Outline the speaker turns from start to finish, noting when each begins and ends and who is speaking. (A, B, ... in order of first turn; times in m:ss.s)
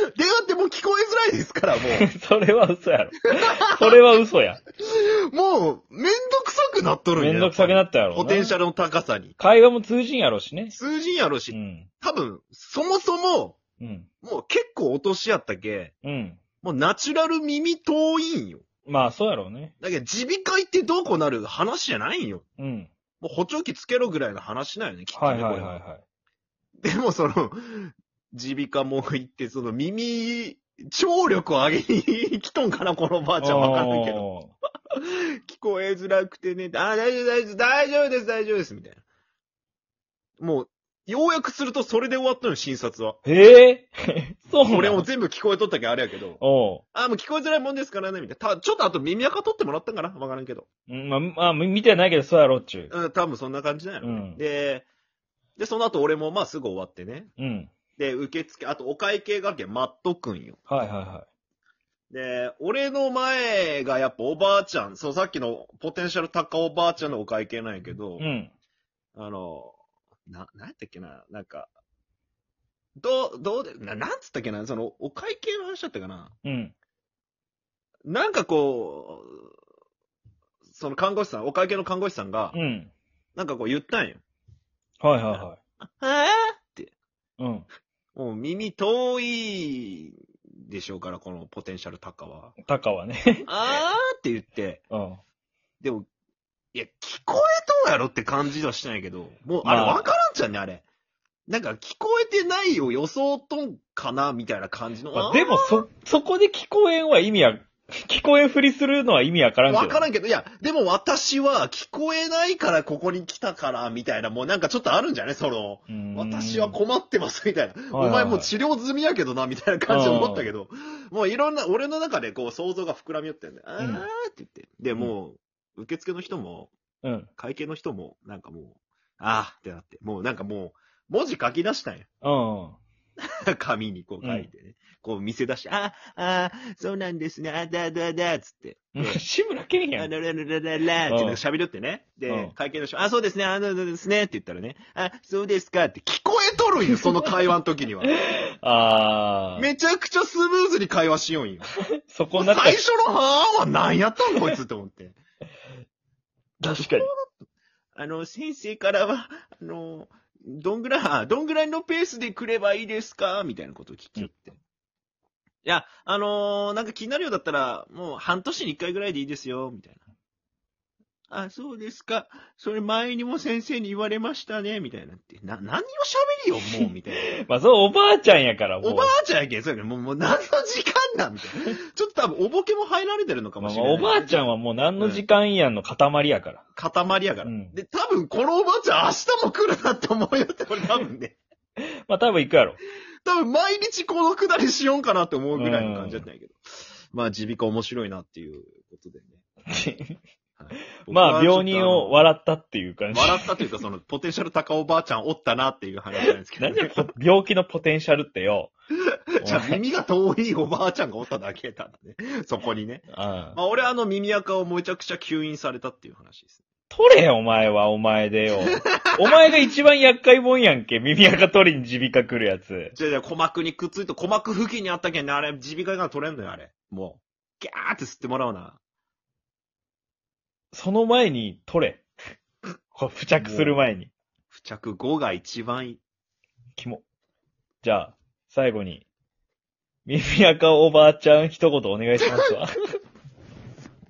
0:00.1-0:02.1 A
0:01.9-0:04.6 B
0:03.4-0:04.0 A
0:04.8-0:09.3 A
0:07.2-0:08.6 B
0:09.4-0:10.7 B
0:10.7-0:13.6 A
0:11.5-0:11.9 B
0:13.8-0:14.1 B
0:14.2-0:15.9 A
0:16.0-0:16.4 B
0:16.6-0:18.6 A
0:18.8-0:19.7 B
0:19.8-0:22.4 A
0:22.6-0:22.9 B
0:23.2-0:25.8 A
0:25.1-0:26.0 B
0:26.8-0:34.3 A
0:33.4-0:34.5 B
0:34.9-0:39.0 A
0:40.4-0:43.2 A
0:43.2-0:45.1 B
0:44.6-0:46.4 A
0:46.4-0:46.8 B
0:46.9-0:50.7 A
0:50.9-0:52.9 B
0:52.9-0:54.8 A
0:54.0-0:54.4 B
0:55.6-0:57.3 A
0:57.4-0:57.7 B
0:58.0-1:00.6 A
1:00.7-1:01.3 B
1:02.1-1:08.3 A
1:08.2-1:08.5 B
1:09.1-1:09.8 A
1:10.3-1:11.7 A
1:13.0-1:16.3 A
1:16.4-1:16.7 B
1:18.0-1:19.5 A
1:20.7-1:22.6 A
1:22.5-1:22.9 B
1:23.4-1:24.2 A
1:25.0-1:25.6 B
1:26.0-1:26.9 A
1:27.4-1:27.7 B
1:28.1-1:32.5 A
1:32.6-1:33.5 B
1:33.5-1:34.8 A
1:34.9-1:35.2 B
1:35.8-1:36.1 A
1:36.7-1:40.8 A
1:39.6-1:40.1 B
1:41.5-1:45.8 A
1:45.1-1:50.0 B
1:49.7-2:06.7 A
1:55.9-1:56.8 B
1:57.9-1:58.5 B
1:59.9-2:00.5 B
2:03.8-2:04.0 B
2:07.0-2:07.3 B
2:07.4-2:12.1 A
2:12.2-2:12.8 B
2:13.2-2:19.2 A
2:14.2-2:14.5 B
2:18.9-2:20.1 B
2:20.0-2:28.2 A
2:21.0-2:21.4 B
2:22.3-2:22.5 B
2:28.6-2:29.7 B
2:29.6-2:31.7 A
2:32.1-2:32.8 B
2:32.3-2:35.2 A
2:36.6-2:37.1 B
2:36.8-2:37.2 A
2:37.9-2:44.6 A
2:45.6-2:50.0 A
2:51.3-2:57.3 A
2:56.8-2:59.1 B
2:58.8-3:05.2 A
3:03.6-3:06.6 B
3:06.7-3:11.4 A
3:07.4-3:07.7 B
3:12.1-3:12.8 B
3:13.2-3:16.6 A
3:15.5-3:16.2 B
3:17.1-3:19.4 A
3:19.7-3:20.2 B
3:20.6-3:22.2 A
3:21.1-3:23.5 B
3:23.1-3:26.9 A
3:26.6-3:28.7 B
3:29.4-3:36.6 A
3:29.4-3:29.8 B
3:33.1-3:33.6 B
3:36.9-3:42.9 B
3:38.6-3:39.3 A
3:42.9-3:48.8 A
3:50.7-3:52.0 B
3:52.9-3:54.1 B
3:53.4-3:53.8 A
3:54.5-3:56.0 A
3:56.8-3:57.0 B
3:57.8-3:59.0 B
4:00.0-4:02.8 B
4:02.2-4:02.5 A